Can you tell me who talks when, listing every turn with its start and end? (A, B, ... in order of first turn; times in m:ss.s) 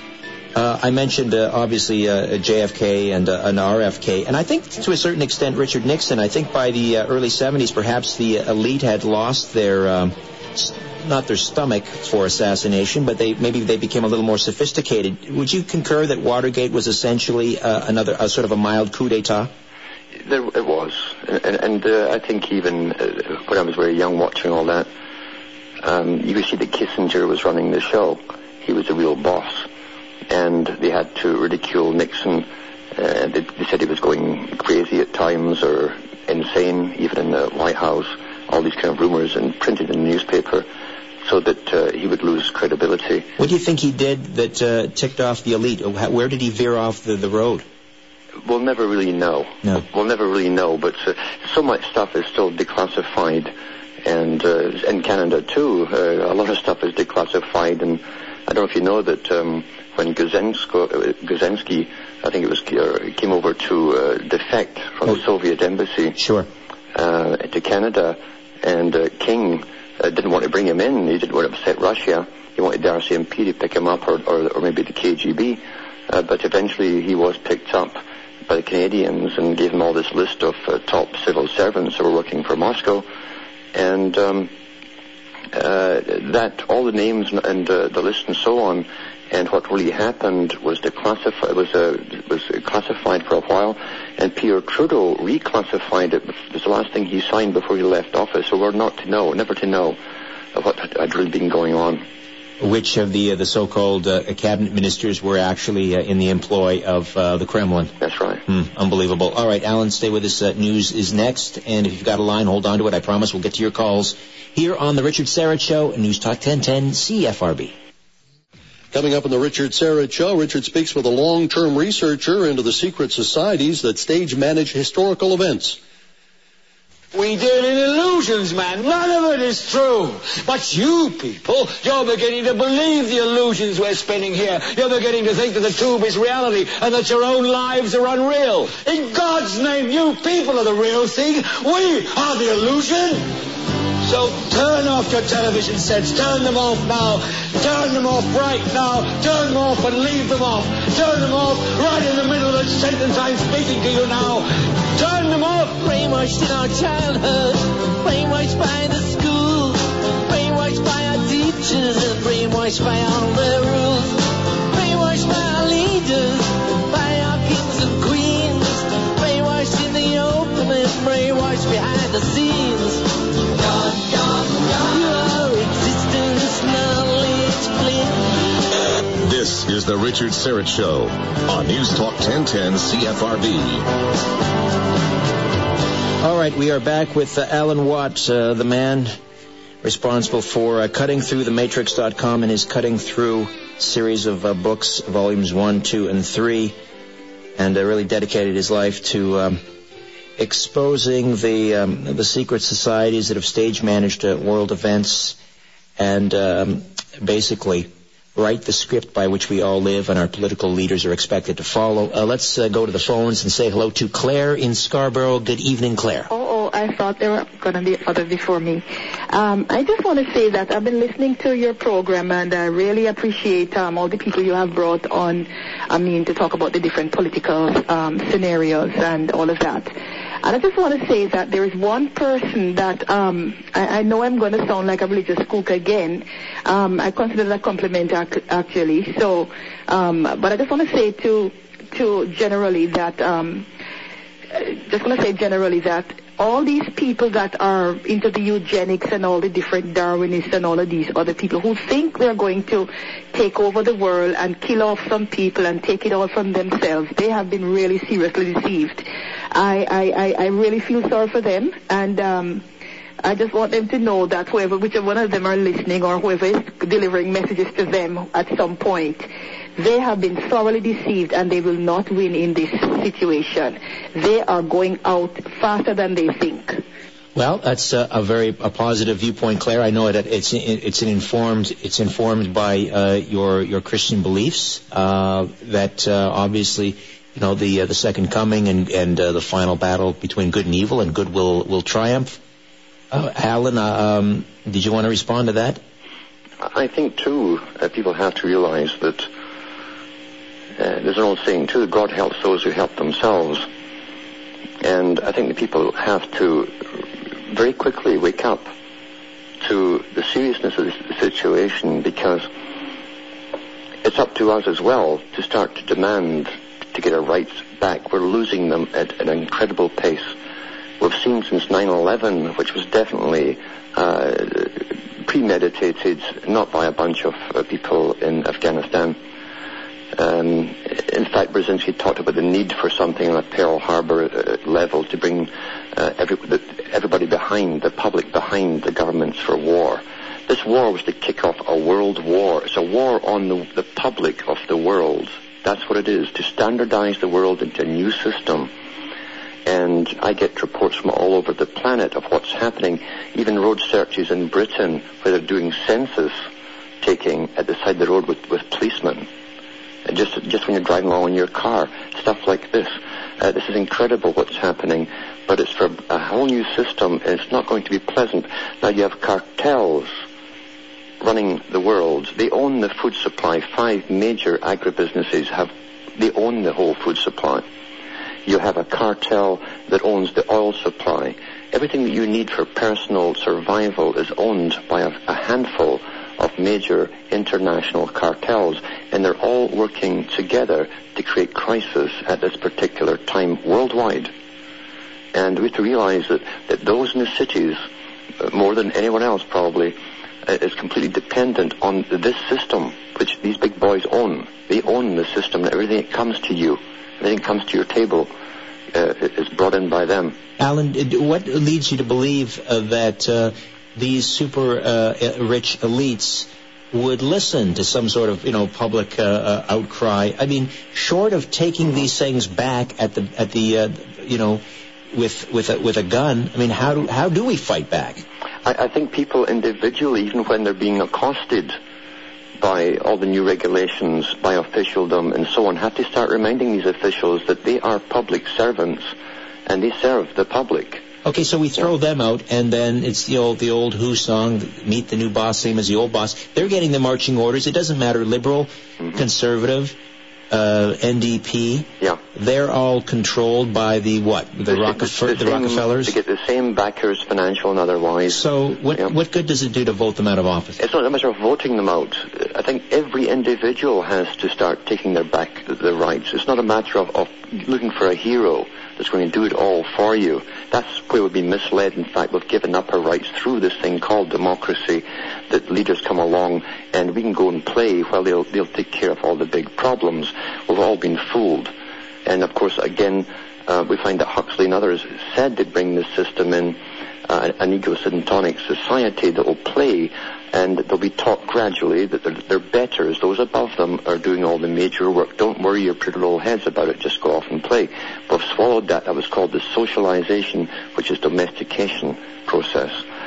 0:00.5-0:19.5 A
0:20.2-0:24.9 B
0:25.8-0:29.6 B
0:30.3-0:40.7 B
0:41.2-0:43.3 B
0:43.4-0:47.6 A
0:48.4-0:53.5 B
0:54.0-1:06.2 B
1:06.2-1:06.5 A
1:06.9-1:23.0 B
1:23.7-1:24.5 B
1:25.5-1:40.0 B
1:40.5-1:42.0 B
1:42.6-1:47.9 A
1:48.0-1:48.4 B
1:48.4-1:57.7 A
1:58.9-2:05.8 C
2:07.1-2:23.3 D
2:24.0-2:35.7 D
2:35.7-2:58.4 E
2:59.2-3:03.9 F
3:06.2-3:09.1 A
3:09.8-3:16.8 A
3:17.6-3:19.6 A
3:20.4-3:25.4 A
3:26.0-3:36.3 A
3:36.3-4:03.7 G
4:04.5-4:22.6 G
4:23.2-4:36.8 G
4:37.3-4:52.4 A
4:53.1-4:55.8 A
4:56.6-4:59.3 B
5:00.8-5:03.6 B
5:04.8-5:06.8 B
5:07.5-5:08.7 B
5:09.6-5:12.5 B
5:14.0-5:20.3 B
5:21.0-5:29.2 B
5:30.1-5:48.7 B
5:49.6-5:56.3 B
5:57.0-5:59.3 B
6:00.0-6:10.1 B
6:11.2-6:17.6 B
6:18.4-6:34.3 B
6:35.3-6:37.8 B
6:38.4-6:48.3 B
6:48.9-6:50.4 B
6:50.6-7:08.2 A
7:08.6-7:11.7 B
7:12.6-7:19.1 B
7:19.7-7:21.0 B
7:21.2-7:30.0 A
7:30.5-7:36.1 A
7:34.7-7:38.4 B
7:38.3-7:40.8 A
7:40.8-8:01.7 B
8:02.2-8:23.0 B